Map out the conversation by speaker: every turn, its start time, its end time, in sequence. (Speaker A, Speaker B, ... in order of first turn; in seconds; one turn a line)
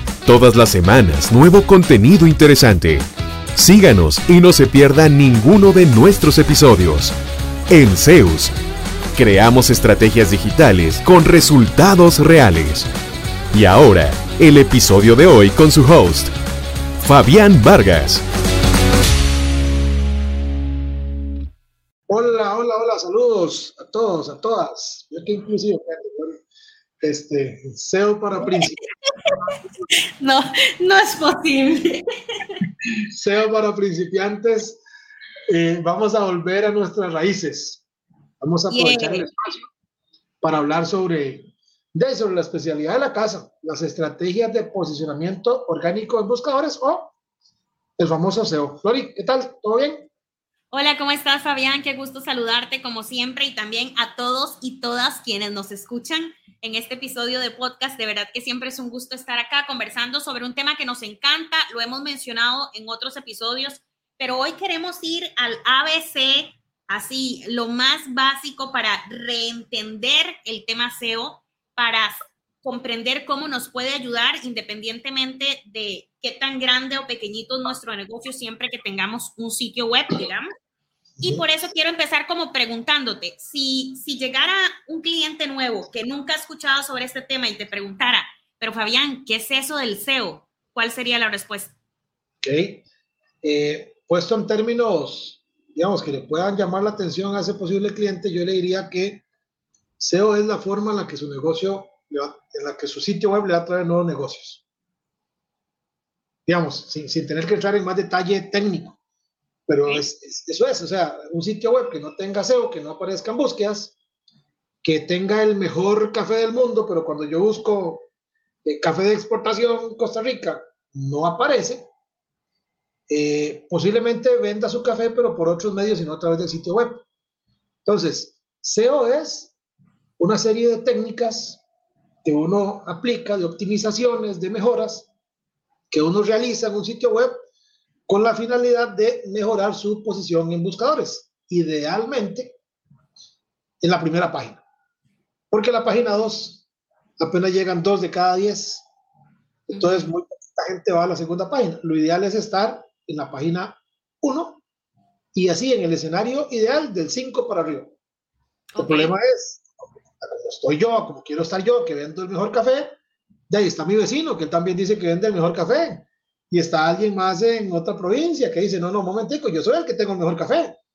Speaker A: 0.2-3.0
Speaker A: 3.5-7.1
Speaker A: 7.7-8.5
Speaker A: 9.2-12.9
Speaker A: 13.5-16.3
Speaker A: 17.0-18.2
Speaker B: 22.1-26.4
Speaker B: 27.0-28.8
Speaker C: 29.9-32.6
Speaker B: 33.1-34.8
Speaker B: 35.5-37.8
Speaker B: 38.4-39.7
Speaker C: 38.7-39.3
Speaker B: 40.4-47.1
Speaker B: 48.0-50.1
Speaker C: 50.7-80.5
Speaker C: 81.2-91.7
Speaker B: 92.4-92.8
Speaker B: 93.4-99.2
Speaker B: 100.0-104.6
Speaker B: 106.5-109.0
Speaker B: 109.7-113.9
Speaker B: 114.8-118.0
Speaker B: 118.6-121.8
Speaker B: 123.1-127.0
Speaker B: 127.8-129.5
Speaker B: 130.2-131.6
Speaker B: 132.2-135.1
Speaker B: 135.9-137.3
Speaker B: 138.1-142.6
Speaker B: 143.8-144.6
Speaker B: 145.5-146.6
Speaker B: 147.2-148.8
Speaker C: 149.7-150.1
Speaker B: 149.7-154.6
Speaker B: 155.3-157.9
Speaker C: 158.7-159.2
Speaker B: 158.8-159.7
Speaker B: 160.2-162.9
Speaker B: 163.5-170.8